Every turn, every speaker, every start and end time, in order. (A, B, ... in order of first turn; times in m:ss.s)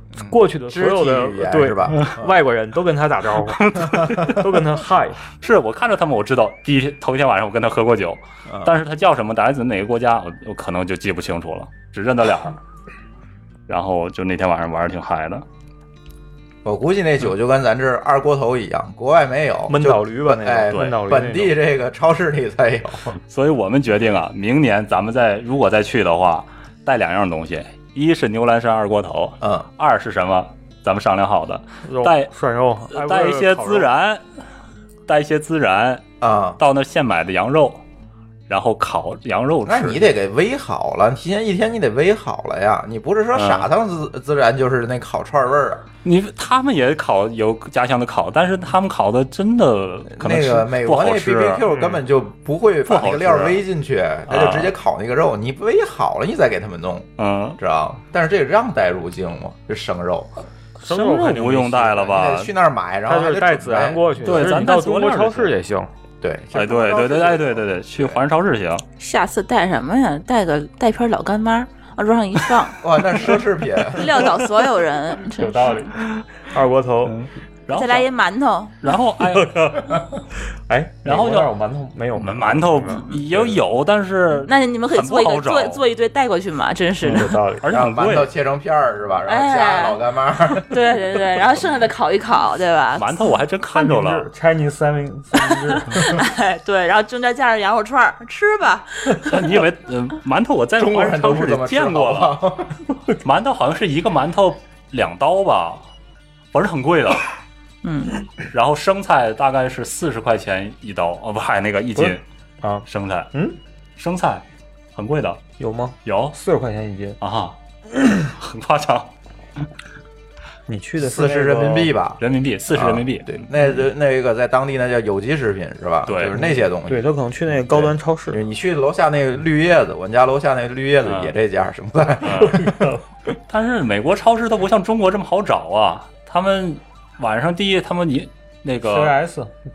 0:00.2-0:02.4 A
0:00.2-0:05.2 B
0:03.4-0:04.4 C
0:05.4-0:12.6 C
0:08.5-0:08.7 A
0:13.7-0:15.4 C
0:16.6-0:23.2 A
0:19.7-0:21.6 B
0:20.7-0:21.0 C
0:23.3-0:32.3 C
0:29.4-0:29.7 A
0:31.8-0:33.9 B
0:32.9-0:34.2 C
0:35.1-0:36.0 C
0:36.2-0:36.6 A
0:36.6-0:37.8 C
0:38.5-0:40.1 C
0:39.6-0:45.8 A
0:43.3-0:43.7 C
0:46.0-0:52.0 C
0:50.1-1:00.3 A
0:52.8-0:53.6 C
0:54.3-0:54.7 C
0:57.2-0:57.6 C
1:00.8-1:01.9 B
1:00.9-1:02.5 C
1:01.8-1:04.6 A
1:03.1-1:05.9 B
1:04.2-1:05.5 C
1:06.2-1:08.2 A
1:06.5-1:08.8 C
1:09.0-1:12.8 D
1:12.8-1:14.1 A
1:14.0-1:15.9 D
1:15.4-1:17.3 B
1:15.8-1:16.0 C
1:17.1-1:18.1 C
1:17.7-1:18.8 D
1:18.8-1:19.7 C
1:19.3-1:23.6 B
1:21.0-1:21.5 C
1:22.2-1:25.8 C
1:24.5-1:27.4 D
1:27.0-1:28.3 C
1:27.1-1:27.7 B
1:27.7-1:30.7 A
1:29.3-1:30.0 D
1:30.6-1:33.2 D
1:33.0-1:34.3 C
1:33.7-1:36.2 B
1:35.9-1:39.4 D
1:39.2-1:42.4 C
1:40.8-1:42.8 A
1:43.2-1:45.8 C
1:46.5-1:47.2 C
1:47.8-1:48.2 D
1:48.5-1:52.2 C
1:52.0-1:53.6 B
1:52.9-1:53.3 C
1:54.0-1:54.4 C
1:55.0-1:55.4 C
1:55.6-1:57.2 B
1:56.0-1:56.4 C
1:57.2-1:57.6 C
1:58.2-1:59.1 C
2:00.7-2:01.9 B
2:01.0-2:02.2 A
2:02.2-2:03.5 C
2:02.7-2:12.7 A
2:06.1-2:06.4 C
2:06.4-2:08.4 B
2:11.0-2:11.3 C
2:12.2-2:12.7 C
2:12.4-2:13.0 B
2:13.5-2:19.2 C
2:18.8-2:19.5 B